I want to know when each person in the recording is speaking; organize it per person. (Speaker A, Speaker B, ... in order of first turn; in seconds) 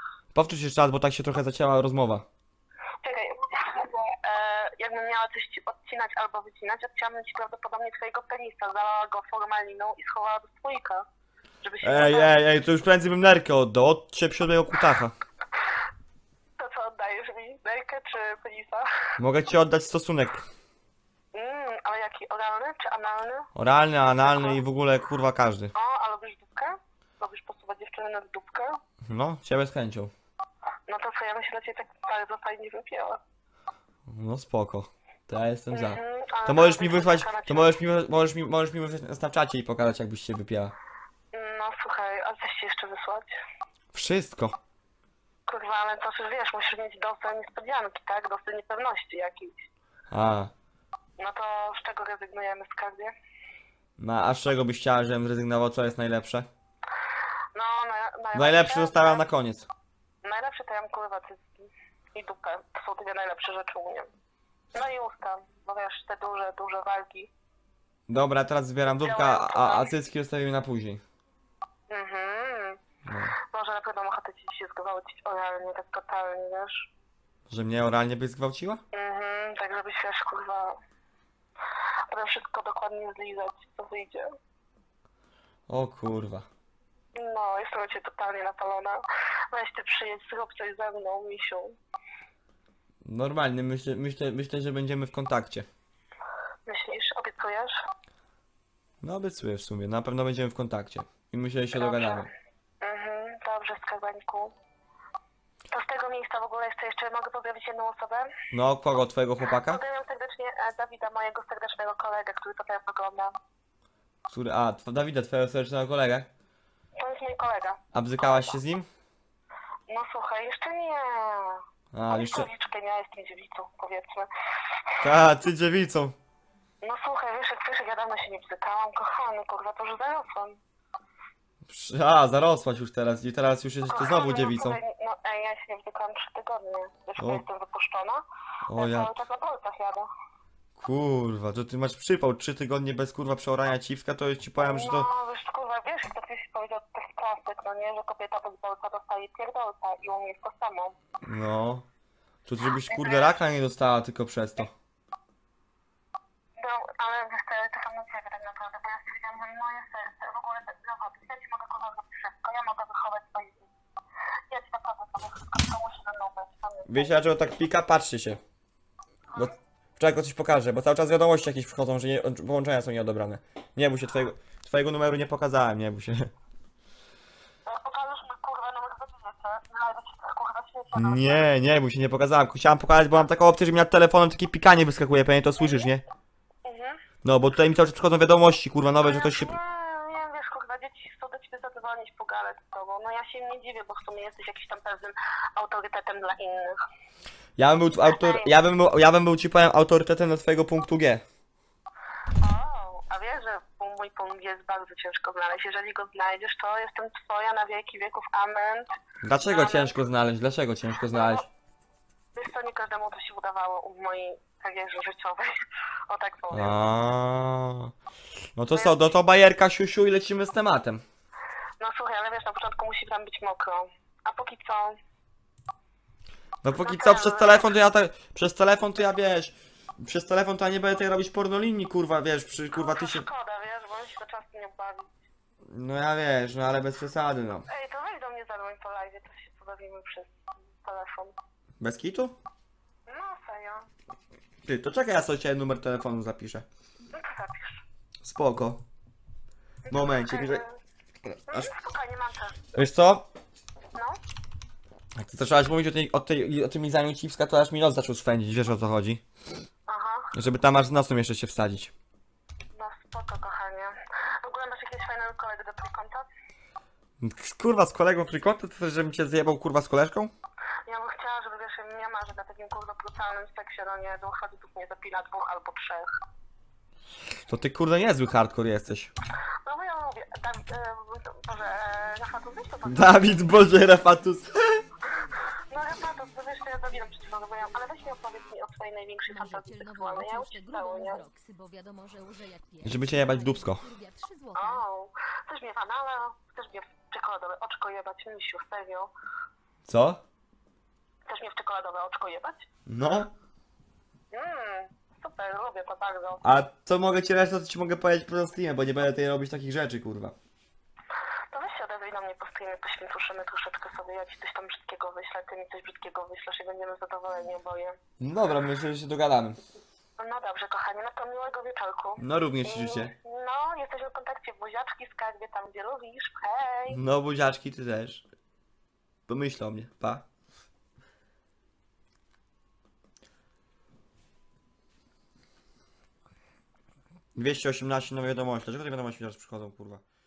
Speaker A: 0.3-2.2, 11.8-15.1, 19.2-20.5, 23.6-25.7, 29.1-30.1, 34.1-40.7, 43.9-44.6, 50.1-50.5, 54.0-56.5, 58.4-59.7, 68.1-71.0, 73.1-73.3, 77.5-78.8, 85.7-86.5, 93.0-95.7, 99.0-102.3, 108.5-109.8, 114.3-116.3, 117.9-118.9, 121.9-122.5, 125.0-126.2, 131.7-134.8, 137.2-137.4, 138.7-139.1, 140.8-145.1, 151.2-151.9, 152.5-154.7, 166.9-168.4, 169.3-176.3, 180.9-186.0, 187.2-189.6, 197.6-201.2, 209.2-211.4, 216.5-217.9, 218.6-221.0, 226.6-233.3, 235.7-237.7, 241.8-242.4, 244.7-246.7, 248.2-248.8, 249.9-250.6, 251.2-251.7, 252.7-253.3, 255.2-259.2, 260.3-261.9, 267.2-270.3, 277.5-279.1, 282.9-284.8, 292.8-293.8, 299.9-300.2, 302.9-303.3, 306.4-310.3, 318.2-319.6, 322.2-323.1, 326.9-328.2, 329.3-330.2, 337.4-340.0
Speaker B: 3.0-11.1, 11.6-12.4, 16.6-18.9, 21.3-23.5, 24.1-24.6, 25.8-28.8, 30.9-33.2, 35.7-37.8, 41.3-43.3, 45.5-49.7, 51.2-53.1, 57.5-59.2, 60.2-64.1, 64.7-67.3, 69.0-69.9, 71.9-72.8, 73.5-76.9, 78.9-80.8, 82.1-84.2, 87.2-89.0, 89.5-91.7, 96.7-97.8, 101.7-102.3, 102.8-104.5, 105.7-108.3, 109.5-113.3, 117.0-118.5, 119.9-124.3, 126.8-130.6, 133.9-138.2, 138.8-140.1, 144.6-151.0, 152.9-153.3, 156.6-163.7, 164.5-167.1, 177.7-181.5, 186.7-187.0, 189.0-196.8, 198.0-198.5, 202.4-208.9, 209.5-209.9, 211.1-211.5, 212.3-215.6, 216.1-216.8, 221.8-225.0, 226.8-227.7, 232.7-235.1, 237.7-241.3, 243.1-243.9, 247.1-247.8, 249.9-250.7, 251.5-252.6, 259.9-260.3, 262.7-266.3, 270.9-276.1, 279.6-283.7, 285.7-291.2, 294.6-299.1, 301.3-302.7, 304.3-306.4, 311.5-318.0, 320.2-327.0
Speaker C: 289.3-294.8